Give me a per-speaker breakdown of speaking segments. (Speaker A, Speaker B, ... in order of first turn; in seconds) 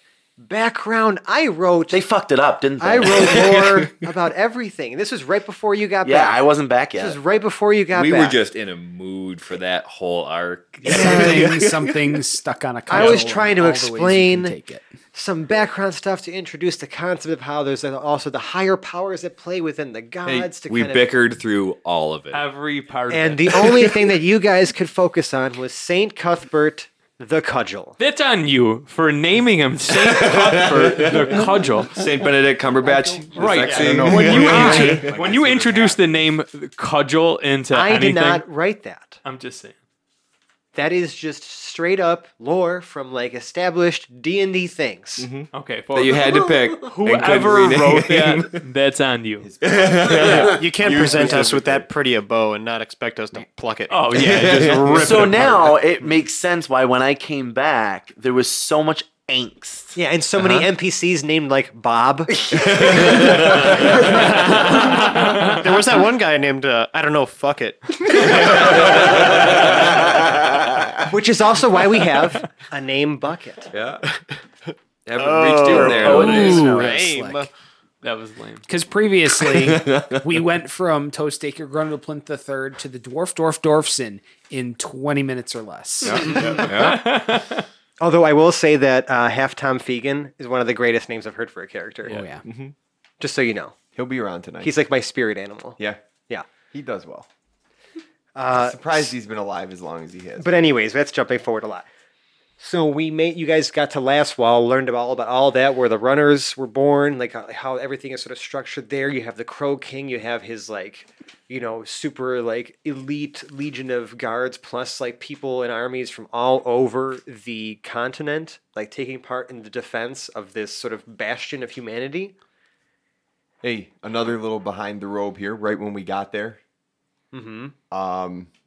Speaker A: 0.4-2.1, 2.8-6.4, 6.9-8.4, 10.9-11.5, 12.9-14.6, 15.1-21.1, 23.1-28.0, 33.7-35.2, 37.7-39.2, 40.7-45.3, 60.0-64.7, 71.1-73.7, 88.0-92.2, 93.2-93.8, 94.6-96.5, 98.3-99.1, 100.4-101.9, 102.6-122.3, 127.3-127.8
Speaker B: 1.9-3.7, 6.0-7.2, 46.2-46.8, 50.2-50.5, 54.9-60.0, 75.7-76.8
Speaker C: 7.9-12.0, 20.3-22.5, 30.0-35.4, 45.2-48.6, 49.6-51.9, 54.2-55.2, 62.5-64.2, 68.2-69.8, 73.7-74.0, 75.1-76.8, 79.4-80.3, 86.0-87.1, 92.5-92.7
Speaker D: 10.8-14.8, 76.0-77.5, 78.7-86.6, 92.1-92.4
Speaker E: 22.3-23.9, 28.0-32.1, 33.3-38.5, 39.2-39.8, 45.5-49.5, 53.9-55.6, 64.0-65.6, 78.0-78.6, 86.7-87.7
Speaker F: 33.4-35.9, 49.4-51.8, 94.0-94.7, 96.7-97.3, 98.5-100.5, 123.6-126.6, 127.9-128.5
Speaker G: 50.4-55.8, 64.8-69.3, 74.1-74.3, 75.2-77.5